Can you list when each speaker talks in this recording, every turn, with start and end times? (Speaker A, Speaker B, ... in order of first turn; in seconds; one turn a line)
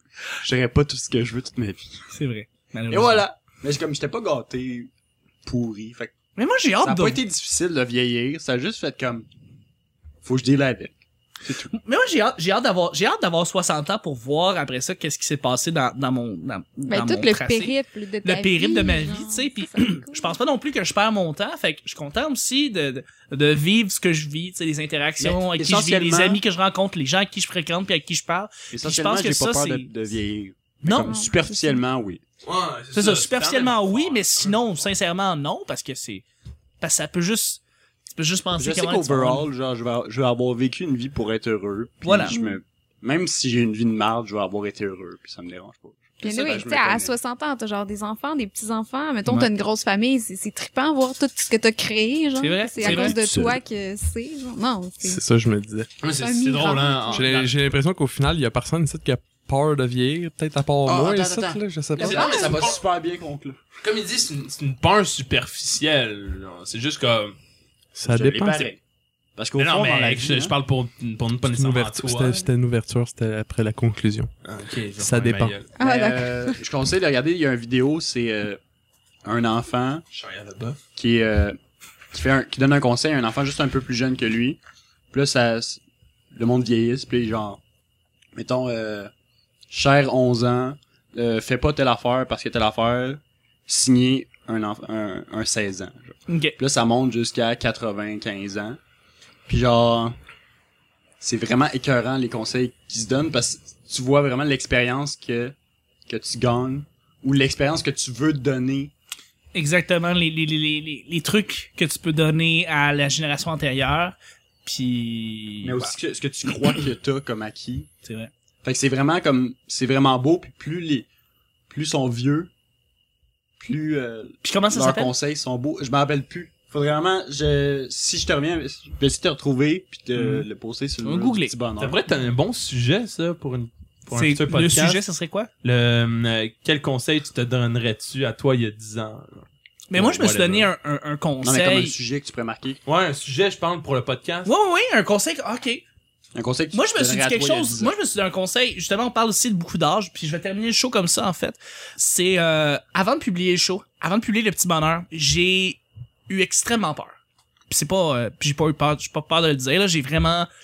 Speaker A: 0.4-2.1
Speaker B: 2.1-3.2
Speaker A: 2.9-4.9
Speaker A: 5.5-6.1
Speaker B: 6.4-7.2
Speaker A: 6.8-9.3
Speaker A: 10.2-11.7
Speaker B: 11.7-29.9
Speaker C: 16.9-20.3
Speaker A: 25.2-26.4
Speaker A: 28.7-32.2
Speaker B: 30.8-31.2
Speaker C: 31.0-31.8
Speaker D: 32.4-34.9
Speaker B: 32.9-36.2
Speaker B: 36.8-37.6
Speaker B: 38.2-39.5
Speaker A: 38.6-47.1
Speaker B: 42.0-42.4
Speaker C: 42.3-42.6
Speaker C: 46.2-55.2
Speaker D: 46.3-46.7
Speaker B: 52.4-53.2
Speaker A: 52.8-53.6
Speaker E: 55.0-55.9
Speaker D: 56.0-57.7
Speaker C: 56.2-57.3
Speaker E: 57.1-62.5
Speaker A: 60.9-63.6
Speaker D: 62.0-62.8
Speaker C: 62.1-62.4
Speaker D: 63.8-67.3
Speaker E: 68.0-68.7
Speaker A: 68.1-68.8
Speaker A: 69.4-70.5
Speaker D: 69.6-72.4
Speaker E: 71.5-74.3
Speaker D: 74.5-75.7
Speaker E: 75.0-75.6
Speaker C: 75.8-76.6
Speaker A: 75.8-78.6
Speaker A: 79.2-80.0
Speaker D: 80.1-80.8
Speaker A: 81.0-81.6
Speaker A: 82.1-84.6
Speaker A: 85.1-85.8
Speaker A: 86.3-87.6
Speaker A: 88.3-89.1
Speaker A: 89.7-98.8
Speaker B: 96.3-96.6
Speaker A: 99.5-100.2
Speaker A: 101.2-105.5
Speaker A: 106.1-108.9
Speaker B: 109.5-116.0
Speaker A: 115.6-117.9
Speaker B: 118.0-118.3
Speaker A: 118.6-121.1
Speaker A: 121.7-122.5
Speaker A: 123.6-132.0
Speaker B: 124.4-125.1
Speaker B: 130.2-130.5
Speaker B: 131.0-131.6
Speaker D: 131.8-135.0
Speaker B: 134.1-135.5
Speaker D: 135.6-140.7
Speaker B: 139.9-142.0
Speaker A: 141.4-142.8
Speaker D: 142.9-144.5
Speaker B: 144.5-145.8
Speaker A: 146.3-147.9
Speaker B: 146.7-157.2
Speaker B: 157.7-160.5